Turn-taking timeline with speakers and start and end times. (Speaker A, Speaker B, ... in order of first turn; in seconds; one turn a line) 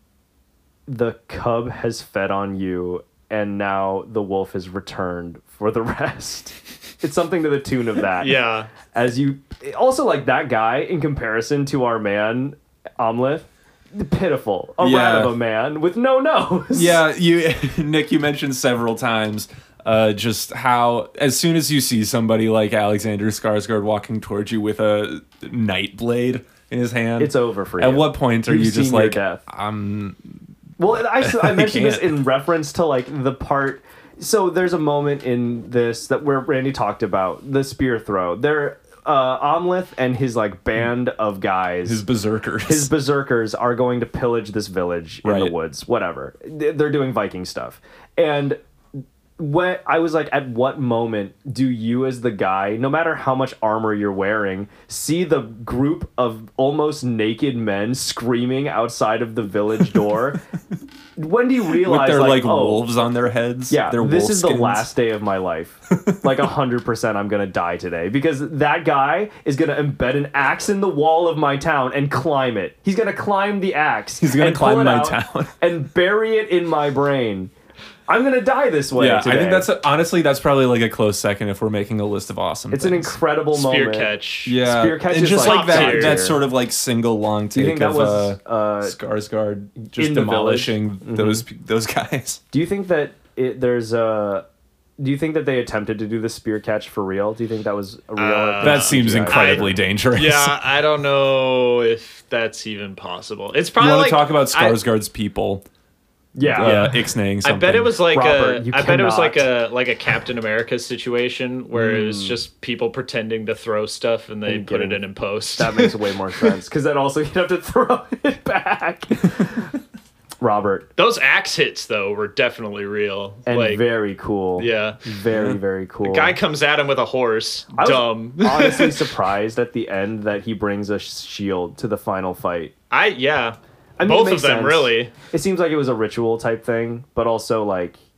Speaker A: 0.9-17.0
Speaker B: 8.2-8.7
Speaker C: 14.8-15.3
Speaker C: 16.7-30.2
Speaker A: 27.2-29.4
Speaker A: 30.8-42.0
Speaker C: 31.2-32.2
Speaker C: 41.8-42.9
Speaker A: 42.6-48.6
Speaker C: 45.2-45.5
Speaker A: 49.4-60.4
Speaker A: 61.2-62.9
Speaker C: 61.8-64.9
Speaker A: 63.7-77.5
Speaker C: 65.9-66.2
Speaker C: 74.2-75.5
Speaker A: 78.1-79.7
Speaker C: 79.0-83.1
Speaker A: 82.7-86.4
Speaker B: 83.5-84.6
Speaker C: 84.4-92.4
Speaker B: 85.3-86.2
Speaker A: 87.5-89.0
Speaker A: 89.9-91.4
Speaker A: 92.5-94.4
Speaker A: 95.0-99.8
Speaker B: 98.2-104.8
Speaker C: 98.6-100.6
Speaker C: 103.8-105.6
Speaker A: 106.3-106.9
Speaker C: 106.5-107.9
Speaker B: 106.6-116.5
Speaker A: 108.1-109.5
Speaker A: 111.7-112.4
Speaker A: 114.5-115.0
Speaker A: 115.5-119.7
Speaker A: 120.4-120.9
Speaker B: 121.0-123.8
Speaker A: 123.5-126.4
Speaker B: 124.6-125.0
Speaker C: 125.3-125.6
Speaker B: 126.0-129.1
Speaker A: 127.7-132.7
Speaker B: 132.9-135.1
Speaker A: 134.0-138.0